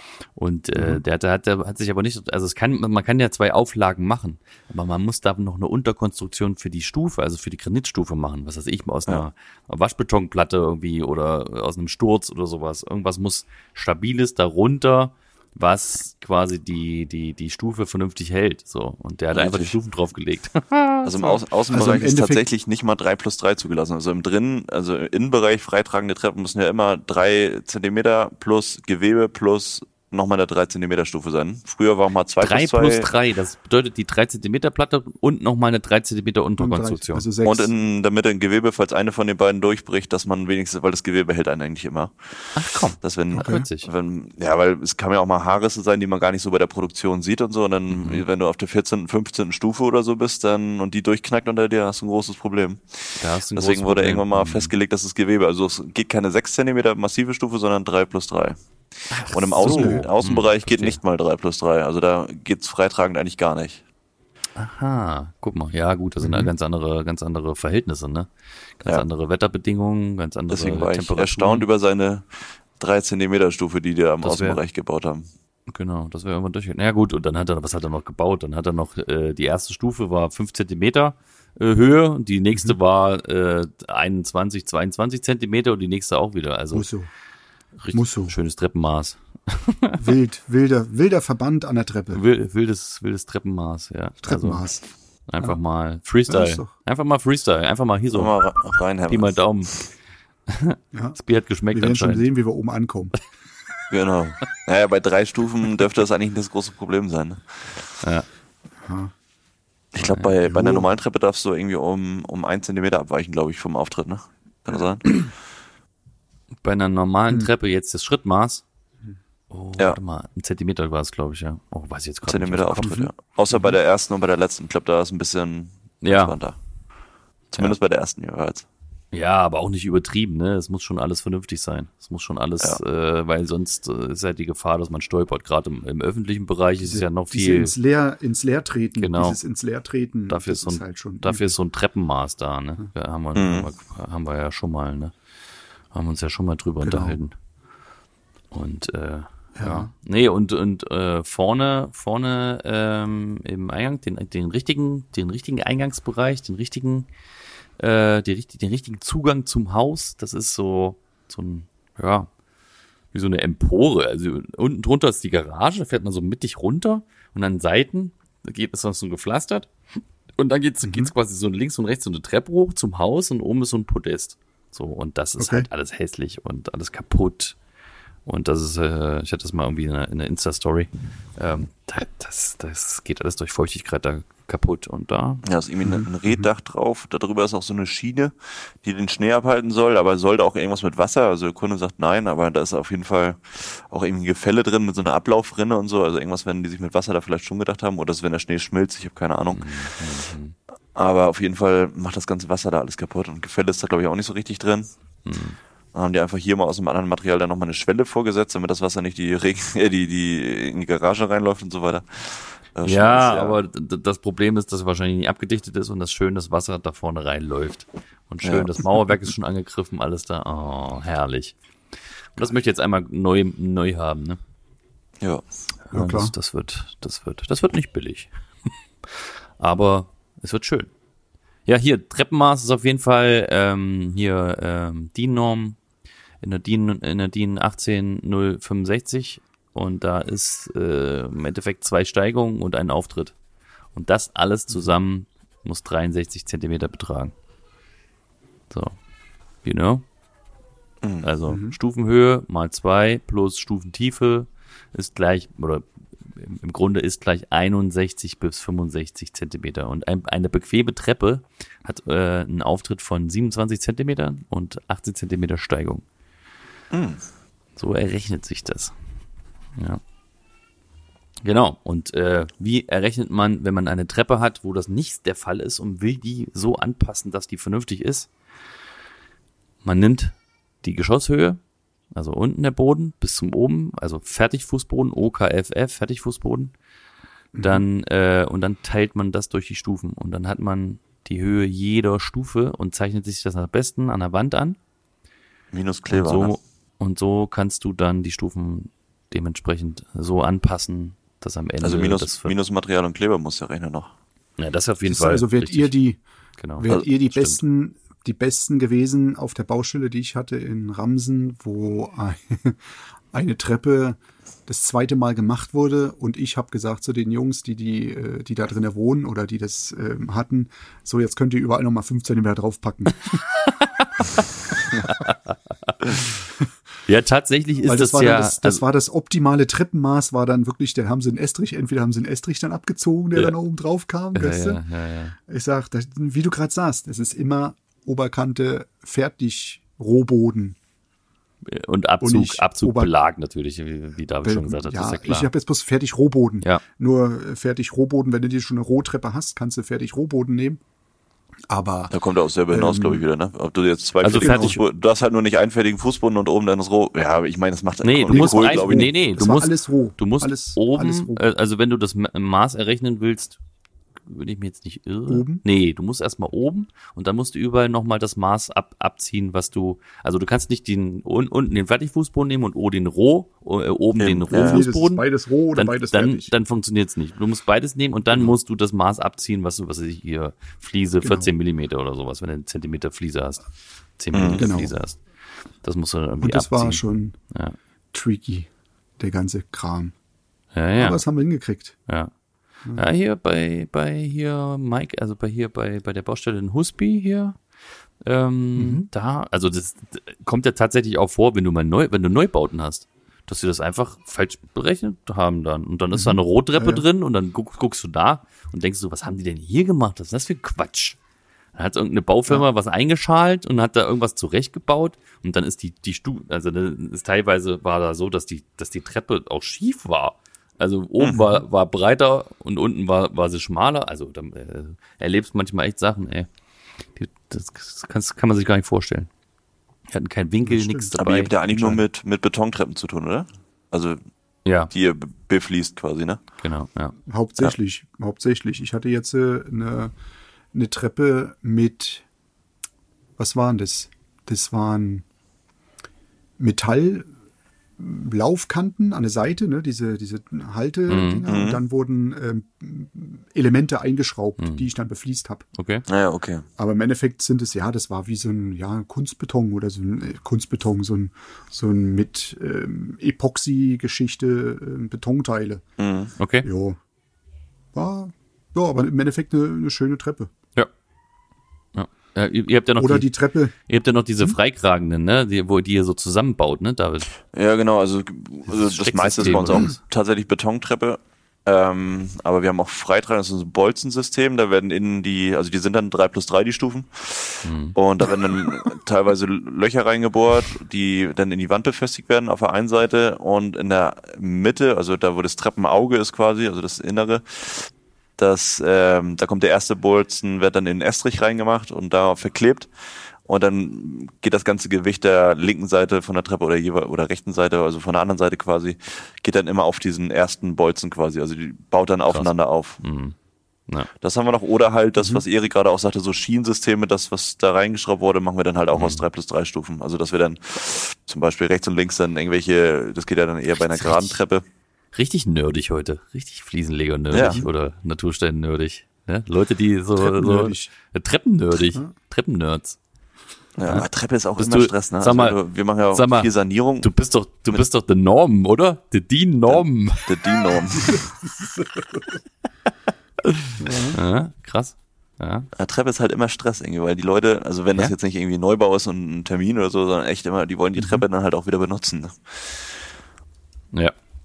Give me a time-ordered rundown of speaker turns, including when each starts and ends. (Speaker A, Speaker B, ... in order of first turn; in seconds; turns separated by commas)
Speaker A: 0.3-21.4, Speaker B: 0.8-1.0, Speaker C: 19.3-19.8, Speaker C: 21.0-33.1, Speaker B: 21.7-22.4, Speaker A: 32.4-37.2, Speaker B: 36.6-37.7, Speaker C: 37.4-63.8, Speaker A: 42.5-43.9, Speaker B: 43.3-43.6, Speaker A: 47.9-48.2, Speaker A: 53.2-54.7, Speaker A: 59.1-61.0, Speaker B: 59.6-60.0, Speaker A: 64.6-68.3, Speaker B: 66.2-66.5, Speaker A: 68.8-71.7, Speaker C: 70.5-75.2, Speaker A: 74.2-74.6, Speaker A: 75.7-86.9, Speaker B: 86.7-87.1, Speaker A: 87.8-90.0, Speaker B: 87.9-88.3, Speaker B: 90.0-92.2, Speaker A: 92.1-94.7, Speaker B: 94.2-94.8, Speaker A: 95.2-98.4, Speaker B: 96.3-96.7, Speaker C: 98.1-99.8, Speaker A: 99.1-99.8, Speaker A: 100.5-102.2, Speaker B: 100.9-101.2, Speaker B: 101.7-103.1, Speaker C: 103.9-107.9, Speaker A: 108.0-108.3, Speaker B: 108.8-109.1, Speaker C: 109.9-115.3, Speaker A: 110.0-110.3, Speaker B: 110.4-110.9, Speaker A: 116.6-118.6, Speaker A: 119.5-123.8, Speaker C: 122.2-126.6, Speaker A: 126.0-126.4, Speaker C: 127.5-128.7, Speaker A: 129.1-137.7, Speaker B: 136.8-141.5, Speaker A: 139.0-139.4, Speaker A: 140.3-145.1, Speaker C: 143.3-143.7, Speaker A: 145.9-147.3, Speaker B: 146.8-147.2, Speaker A: 148.5-157.1, Speaker B: 149.6-149.9, Speaker A: 157.8-162.3, Speaker A: 163.1-169.7, Speaker A: 170.4-177.6, Speaker B: 170.8-171.1, Speaker B: 175.4-175.7, Speaker A: 178.2-185.4, Speaker C: 185.4-199.9, Speaker B: 185.8-186.5, Speaker A: 199.5-200.5, Speaker C: 200.9-204.9, Speaker A: 205.2-205.6, Speaker C: 205.9-213.6, Speaker A: 212.8-221.5, Speaker C: 218.4-218.7, Speaker A: 222.3-224.4, Speaker A: 225.9-228.3, Speaker B: 225.9-226.3, Speaker A: 229.1-230.9, Speaker A: 231.7-235.8, Speaker A: 236.4-243.3, Speaker A: 243.9-247.3, Speaker A: 248.7-248.9, Speaker A: 249.6-250.0, Speaker C: 251.0-251.3, Speaker A: 251.2-266.0, Speaker B: 251.5-251.8, Speaker C: 266.9-267.2, Speaker A: 267.8-268.9, Speaker A: 271.4-278.3, Speaker A: 279.8-281.6, Speaker A: 282.1-286.7, Speaker B: 287.5-287.9, Speaker A: 287.6-294.8, Speaker C: 295.7-296.6, Speaker A: 296.1-302.5, Speaker C: 301.8-304.1, Speaker A: 304.6-305.9, Speaker B: 305.1-306.2, Speaker A: 306.6-307.6, Speaker B: 306.8-323.2, Speaker A: 323.3-326.2, Speaker A: 327.1-328.8, Speaker B: 327.8-334.8, Speaker A: 334.3-335.4, Speaker B: 335.5-340.8, Speaker A: 341.6-345.5, Speaker B: 342.2-343.1, Speaker B: 344.4-350.8, Speaker B: 351.7-352.1, Speaker C: 352.1-359.1, Speaker B: 352.7-353.2, Speaker A: 354.2-354.8, Speaker B: 354.4-354.8, Speaker A: 358.0-363.6, Speaker B: 358.3-361.4, Speaker A: 364.2-375.2, Speaker B: 365.3-365.6, Speaker C: 374.2-374.8, Speaker B: 374.5-376.5, Speaker A: 375.7-383.7, Speaker B: 381.2-381.5, Speaker A: 384.2-385.2, Speaker C: 384.3-384.7, Speaker B: 384.5-384.9, Speaker A: 385.8-387.8, Speaker B: 386.4-387.4, Speaker B: 388.1-390.1, Speaker A: 390.7-391.2, Speaker B: 391.0-391.9, Speaker A: 392.9-397.6, Speaker A: 398.2-411.2, Speaker B: 398.8-399.1, Speaker B: 406.1-407.1, Speaker A: 411.7-426.5, Speaker C: 421.2-421.5, Speaker A: 427.1-429.3, Speaker A: 430.1-431.5, Speaker B: 430.6-431.1, Speaker C: 431.2-434.2, Speaker B: 431.7-432.0, Speaker A: 434.6-434.9, Speaker C: 434.9-436.4, Speaker A: 436.6-437.1, Speaker B: 437.3-440.1, Speaker B: 440.7-442.2, Speaker B: 443.4-445.2, Speaker B: 446.6-447.3, Speaker B: 448.0-455.6, Speaker A: 451.1-451.5, Speaker C: 451.5-451.8, Speaker A: 454.6-454.9, Speaker A: 455.7-456.0, Speaker C: 456.1-456.6, Speaker B: 456.8-465.8, Speaker C: 466.0-466.3, Speaker A: 466.4-466.7, Speaker B: 466.6-467.0, Speaker B: 467.9-470.5, Speaker A: 471.9-473.3, Speaker B: 473.0-473.7, Speaker A: 473.9-477.3, Speaker C: 477.5-513.0, Speaker A: 478.7-480.0, Speaker B: 479.7-479.9, Speaker A: 487.6-487.9, Speaker A: 512.3-513.3, Speaker C: 514.2-524.6, Speaker B: 515.2-515.4, Speaker A: 518.9-519.2, Speaker A: 523.8-524.4, Speaker A: 525.1-533.0, Speaker C: 527.3-527.6, Speaker B: 527.3-527.7, Speaker B: 530.2-530.9, Speaker C: 533.8-537.1, Speaker A: 534.6-535.6, Speaker A: 536.1-536.5, Speaker A: 537.0-540.8, Speaker C: 539.7-541.2, Speaker B: 541.1-542.4, Speaker A: 543.4-545.7, Speaker B: 543.8-544.2, Speaker C: 545.8-553.0, Speaker B: 551.0-551.2